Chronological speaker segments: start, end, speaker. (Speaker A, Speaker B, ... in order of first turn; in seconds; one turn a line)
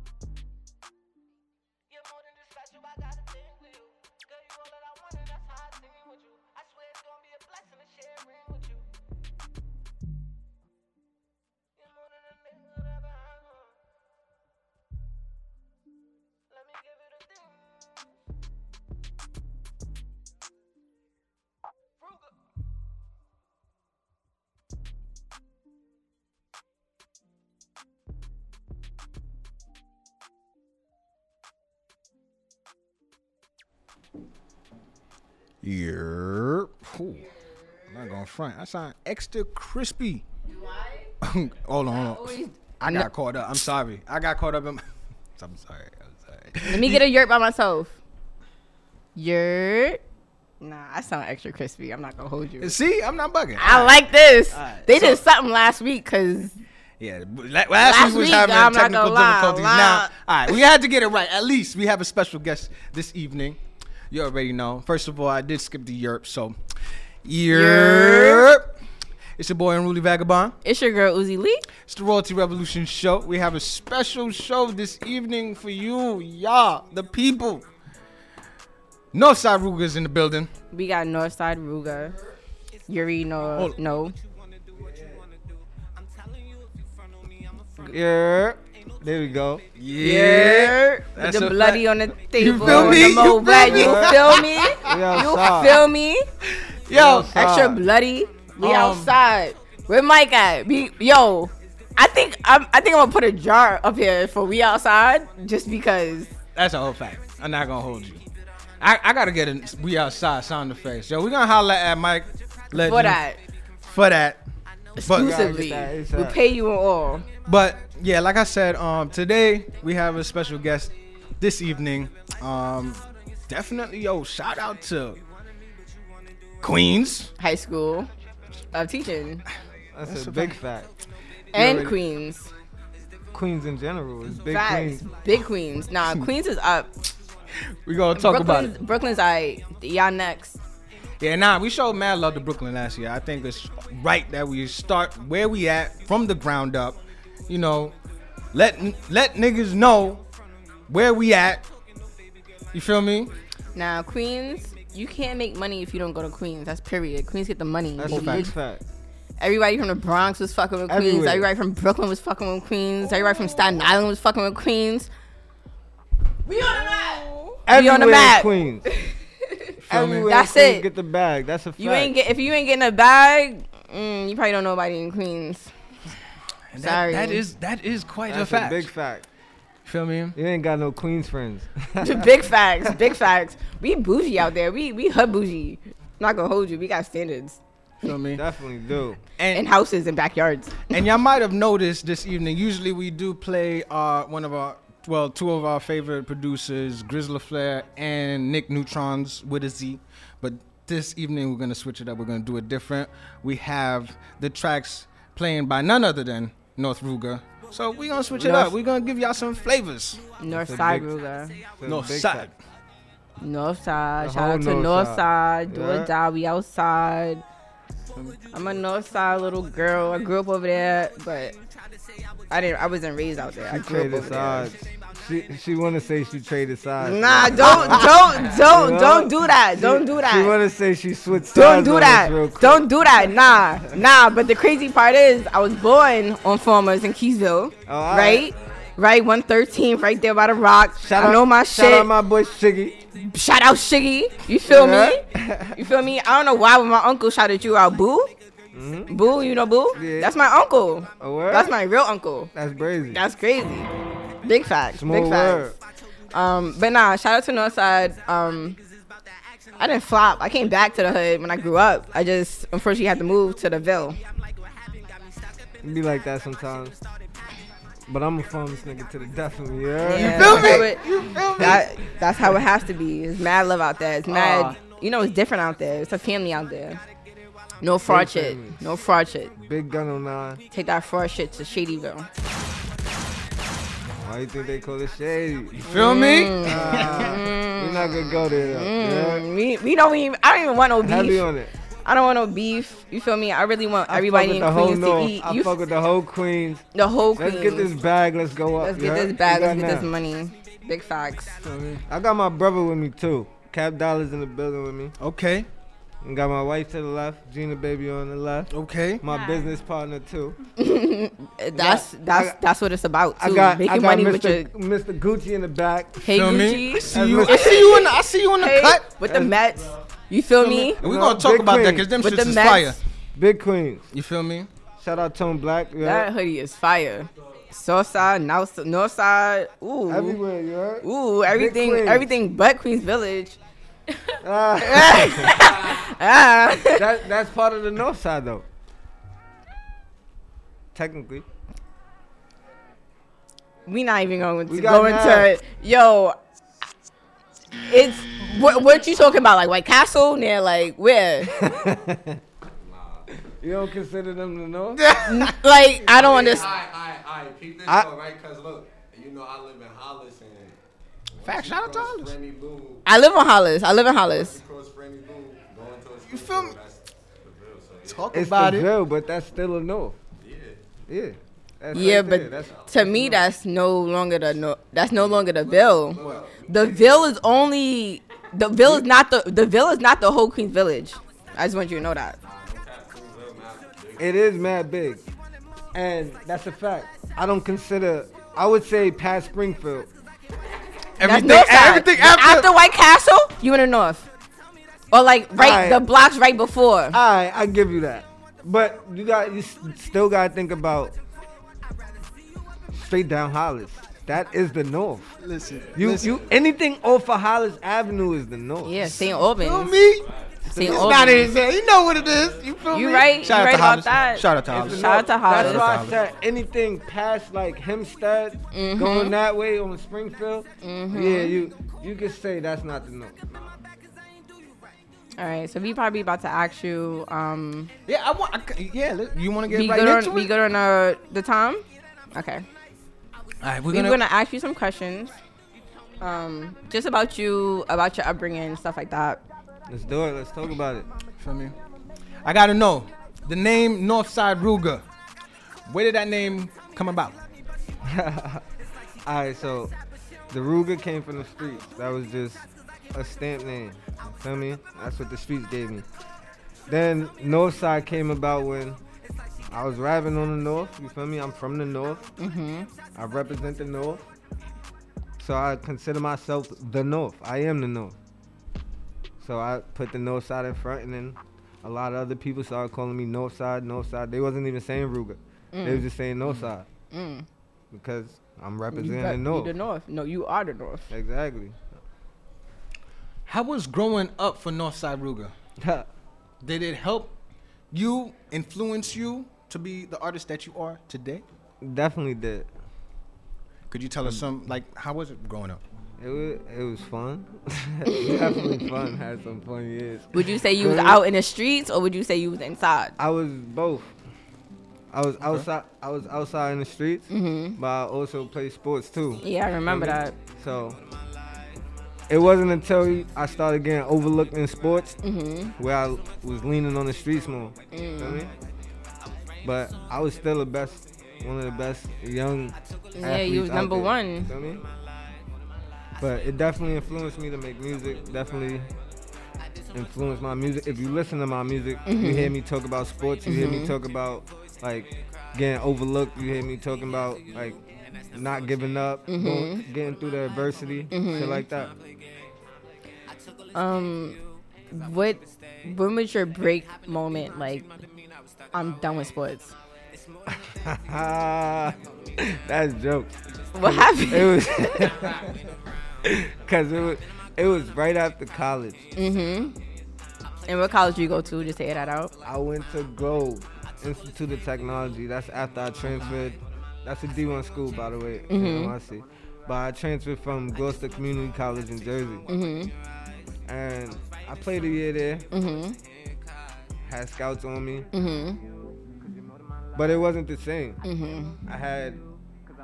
Speaker A: 1.9-8.8
Speaker A: 11.8-13.7
Speaker A: 16.5-17.8
Speaker B: 35.6-37.3
Speaker B: 37.9-40.2
Speaker B: 41.2-44.8
Speaker B: 45.4-47.0
Speaker C: 46.6-48.0
Speaker C: 49.1-50.0
Speaker C: 50.6-52.8
Speaker B: 52.6-55.2
Speaker C: 53.5-56.6
Speaker B: 57.0-63.6
Speaker C: 57.8-60.1
Speaker B: 64.1-66.6
Speaker B: 67.2-68.7
Speaker C: 67.5-68.5
Speaker B: 69.4-70.5
Speaker C: 70.6-71.6
Speaker B: 71.8-77.7
Speaker B: 79.1-80.5
Speaker C: 80.7-82.2
Speaker C: 82.9-84.1
Speaker A: 84.8-85.1
Speaker A: 86.0-86.8
Speaker D: 87.8-89.6
Speaker B: 89.7-95.2
Speaker C: 90.0-96.3
Speaker D: 92.5-95.8
Speaker B: 96.5-97.3
Speaker D: 96.9-97.8
Speaker C: 97.0-106.3
Speaker B: 98.6-99.1
Speaker B: 106.5-108.2
Speaker B: 108.8-113.2
Speaker C: 112.7-113.4
Speaker B: 113.8-114.4
Speaker C: 115.0-117.2
Speaker B: 115.1-115.4
Speaker D: 115.1-116.4
Speaker B: 117.4-125.2
Speaker B: 126.6-127.3
Speaker C: 127.4-128.1
Speaker C: 128.7-129.4
Speaker D: 129.9-130.9
Speaker B: 130.0-130.6
Speaker D: 131.5-132.0
Speaker C: 131.5-132.5
Speaker D: 133.3-135.0
Speaker C: 134.3-137.1
Speaker B: 137.8-138.8
Speaker C: 138.1-140.6
Speaker B: 141.2-147.9
Speaker B: 148.5-150.2
Speaker B: 150.9-151.7
Speaker B: 152.7-153.3
Speaker C: 153.7-158.5
Speaker D: 158.0-158.8
Speaker B: 158.1-158.5
Speaker C: 159.4-165.1
Speaker D: 160.9-161.5
Speaker C: 166.5-168.5
Speaker D: 167.7-168.9
Speaker B: 169.8-170.3
Speaker D: 169.9-172.1
Speaker C: 170.2-170.8
Speaker C: 171.8-175.7
Speaker B: 176.7-178.9
Speaker C: 176.8-177.4
Speaker D: 178.3-179.3
Speaker B: 179.8-180.4
Speaker D: 180.3-182.3
Speaker C: 182.0-187.6
Speaker B: 188.0-188.4
Speaker D: 188.3-189.2
Speaker B: 189.4-189.7
Speaker C: 189.5-190.9
Speaker B: 190.9-210.2
Speaker C: 208.4-208.7
Speaker C: 210.4-211.6
Speaker D: 210.5-211.1
Speaker D: 211.8-212.5
Speaker B: 211.8-212.5
Speaker C: 213.4-217.4
Speaker D: 214.2-216.1
Speaker B: 218.1-218.4
Speaker C: 218.5-221.5
Speaker C: 222.5-224.7
Speaker D: 223.7-232.9
Speaker C: 227.0-230.6
Speaker C: 231.5-242.1
Speaker D: 237.8-238.5
Speaker E: 238.5-238.9
Speaker D: 241.0-243.0
Speaker C: 243.2-245.2
Speaker D: 244.6-245.8
Speaker C: 245.7-248.3
Speaker D: 248.7-249.2
Speaker C: 249.1-252.5
Speaker D: 249.9-250.3
Speaker D: 251.2-251.7
Speaker D: 252.5-253.2
Speaker C: 253.1-255.7
Speaker D: 254.9-255.8
Speaker C: 256.3-258.8
Speaker C: 259.8-264.2
Speaker D: 265.8-266.9
Speaker D: 268.1-271.6
Speaker C: 270.0-277.0
Speaker B: 270.1-271.9
Speaker D: 274.3-274.8
Speaker B: 274.4-274.7
Speaker C: 277.8-279.5
Speaker D: 278.1-278.8
Speaker D: 279.6-280.6
Speaker C: 280.7-282.3
Speaker D: 284.2-285.9
Speaker B: 285.7-287.4
Speaker C: 285.8-291.5
Speaker D: 286.6-289.5
Speaker D: 291.0-291.7
Speaker C: 292.0-295.7
Speaker D: 294.1-300.1
Speaker C: 296.9-297.9
Speaker C: 298.8-301.6
Speaker B: 301.6-302.0
Speaker D: 302.1-305.1
Speaker B: 305.2-305.7
Speaker D: 306.2-310.6
Speaker B: 308.7-309.2
Speaker C: 310.8-314.7
Speaker D: 311.8-312.6
Speaker D: 313.3-316.4
Speaker C: 316.2-321.0
Speaker B: 316.3-319.4
Speaker D: 316.9-317.8
Speaker D: 319.2-319.5
Speaker B: 320.6-323.0
Speaker D: 321.0-322.1
Speaker C: 322.1-323.0
Speaker D: 323.3-324.1
Speaker B: 324.1-324.7
Speaker D: 325.0-326.3
Speaker C: 326.0-330.4
Speaker D: 330.1-332.3
Speaker C: 331.0-333.6
Speaker D: 334.4-335.7
Speaker C: 334.8-337.0
Speaker D: 336.9-338.6
Speaker D: 340.9-341.4
Speaker C: 343.9-346.4
Speaker D: 344.7-345.5
Speaker C: 347.9-351.8
Speaker D: 351.5-352.4
Speaker E: 352.8-353.3
Speaker D: 353.5-355.1
Speaker B: 355.0-355.6
Speaker C: 355.1-356.7
Speaker E: 356.0-360.8
Speaker E: 361.3-363.0
Speaker B: 361.4-362.3
Speaker C: 363.0-364.6
Speaker E: 364.3-368.4
Speaker B: 366.2-366.8
Speaker B: 368.1-368.9
Speaker D: 368.3-370.2
Speaker E: 370.4-370.8
Speaker D: 371.1-373.3
Speaker C: 371.9-382.4
Speaker E: 372.2-373.4
Speaker E: 375.1-377.5
Speaker B: 376.2-376.4
Speaker E: 382.4-384.5
Speaker D: 384.2-385.2
Speaker D: 385.9-390.1
Speaker B: 391.2-392.7
Speaker C: 391.2-394.3
Speaker C: 395.1-397.2
Speaker D: 395.6-396.0
Speaker D: 397.1-401.1
Speaker D: 402.9-405.4
Speaker B: 405.4-406.4
Speaker E: 405.6-406.5
Speaker D: 405.9-409.0
Speaker C: 408.8-410.0
Speaker B: 409.0-416.2
Speaker E: 410.1-410.6
Speaker C: 410.7-411.5
Speaker D: 410.7-411.3
Speaker E: 411.6-412.9
Speaker C: 412.9-415.9
Speaker E: 414.5-414.9
Speaker D: 414.6-423.5
Speaker E: 415.9-416.3
Speaker C: 418.7-419.3
Speaker C: 420.8-421.6
Speaker C: 425.4-427.9
Speaker B: 428.1-430.5
Speaker C: 429.7-432.6
Speaker B: 433.6-434.2
Speaker C: 433.9-435.4
Speaker C: 436.2-439.4
Speaker D: 439.9-441.1
Speaker B: 441.4-441.7
Speaker B: 442.4-445.0
Speaker B: 445.9-447.4
Speaker D: 448.0-448.6
Speaker D: 449.2-449.9
Speaker D: 450.5-456.1
Speaker D: 456.9-459.0
Speaker D: 459.7-462.3
Speaker C: 462.4-462.9
Speaker D: 463.1-464.3
Speaker D: 465.4-468.1
Speaker D: 469.4-476.9
Speaker C: 475.7-476.1
Speaker C: 477.1-477.4
Speaker D: 477.9-479.7
Speaker C: 478.9-481.1
Speaker D: 481.1-481.8
Speaker B: 483.5-485.5
Speaker D: 485.8-486.1
Speaker B: 486.6-487.3
Speaker B: 487.9-491.4
Speaker D: 491.8-492.7
Speaker B: 493.9-495.8
Speaker D: 496.2-501.2
Speaker C: 498.1-498.8
Speaker C: 500.3-503.1
Speaker D: 503.2-504.1
Speaker D: 505.1-511.0
Speaker C: 507.3-507.8
Speaker C: 509.4-510.4
Speaker D: 512.3-515.2
Speaker C: 515.2-515.7
Speaker D: 515.8-518.5
Speaker C: 517.9-518.5
Speaker D: 519.6-524.8
Speaker C: 523.1-524.5
Speaker D: 526.2-528.9
Speaker D: 529.9-541.9
Speaker C: 532.0-532.5
Speaker C: 533.5-533.9
Speaker C: 539.3-539.8
Speaker C: 541.1-541.6
Speaker C: 543.7-544.4
Speaker C: 544.9-547.9
Speaker C: 548.7-549.7
Speaker D: 550.5-555.5
Speaker C: 553.7-555.1
Speaker D: 556.2-559.0
Speaker C: 559.1-559.7
Speaker C: 560.6-562.3
Speaker D: 562.4-572.5
Speaker C: 568.5-568.9
Speaker C: 572.5-572.9
Speaker D: 573.6-575.5
Speaker C: 575.5-576.0
Speaker D: 577.0-578.1
Speaker C: 578.1-578.6
Speaker D: 579.9-581.0
Speaker C: 581.0-581.6
Speaker D: 581.6-582.2